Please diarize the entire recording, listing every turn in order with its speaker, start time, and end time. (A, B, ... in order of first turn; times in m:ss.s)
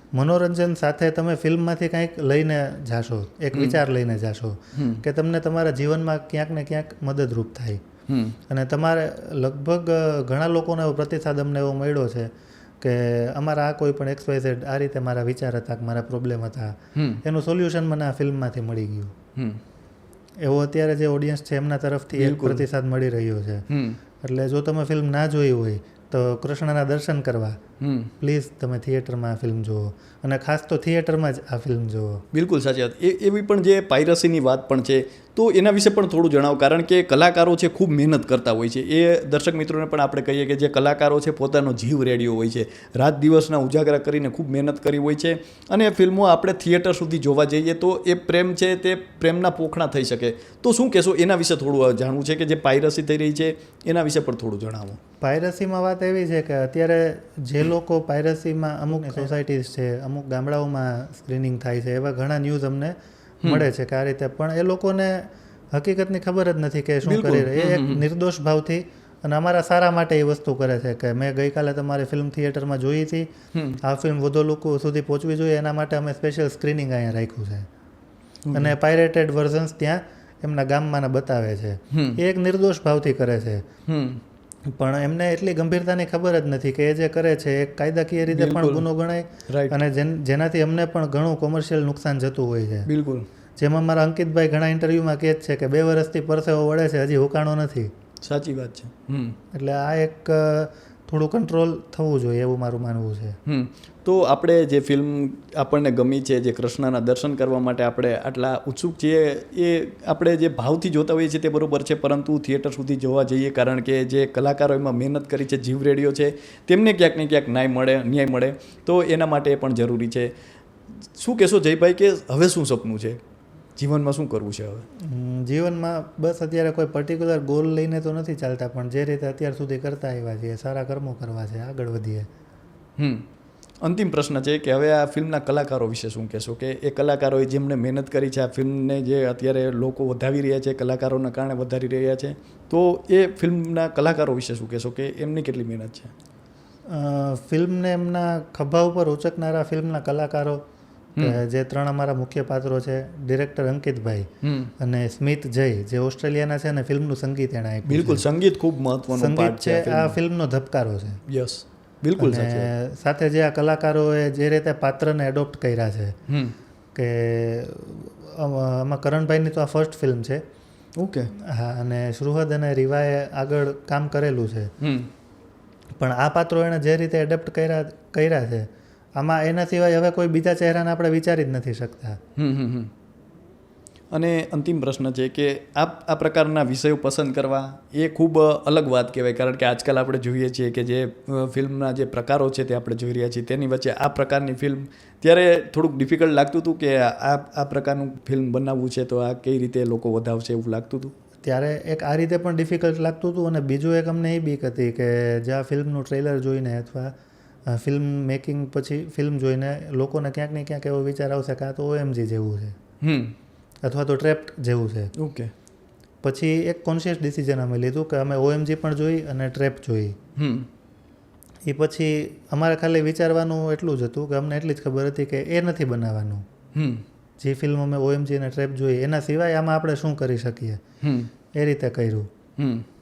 0:00.1-0:07.8 A
0:03.5-0:03.8 B
0:04.8-0:05.0 B
0:08.1-0:08.4 B
0:08.5-0:19.2 A
0:17.0-0:17.2 B
0:19.4-0:19.6 B
0:20.4-0:23.6 A
0:22.2-0:22.7 B
0:23.7-0:24.0 B
0:24.2-0:27.6 A
0:27.8-0:28.1 B
0:28.2-0:32.2 A
0:32.3-0:55.0 B
0:55.2-1:17.7 A
1:07.0-1:08.0 B
1:13.5-1:13.8 B
1:18.5-1:18.8 B
1:18.5-1:23.6 A
1:21.9-1:22.2 B
1:23.9-1:24.2 B
1:24.8-1:32.9 A
1:28.3-1:28.9 B
1:29.5-1:29.8 B
1:32.9-1:33.3 B
1:33.6-1:37.9 A
1:38.2-1:39.4 B
1:39.5-1:43.4 A
1:43.5-2:00.3 B
2:01.1-2:03.2 B
2:03.8-2:04.9 B
2:05.0-2:12.3 A
2:13.0-2:13.3 B
2:13.8-2:26.1 B
2:26.9-2:30.6 A
2:31.2-2:38.2 A
2:34.4-2:34.7 B
2:37.9-2:40.2 B
2:39.1-2:41.2 A
2:41.3-2:42.7 B
2:42.2-2:46.2 A
2:46.3-2:46.6 B
2:47.0-2:50.4 A
2:51.0-2:51.3 B
2:51.4-2:54.7 A
2:54.8-2:55.1 B
2:56.0-3:02.2 A
3:02.4-3:02.9 B
3:04.1-3:21.1 B
3:21.4-3:27.1 A
3:27.7-3:32.8 A
3:33.0-3:33.4 B
3:33.8-3:35.1 A
3:35.2-3:35.5 B
3:36.2-3:40.2 A
3:40.4-3:40.7 B
3:41.7-3:46.4 A
3:46.8-3:47.0 B
3:47.4-3:50.8 A
3:51.0-3:51.3 B
3:51.5-3:52.3 A
3:52.6-3:52.9 B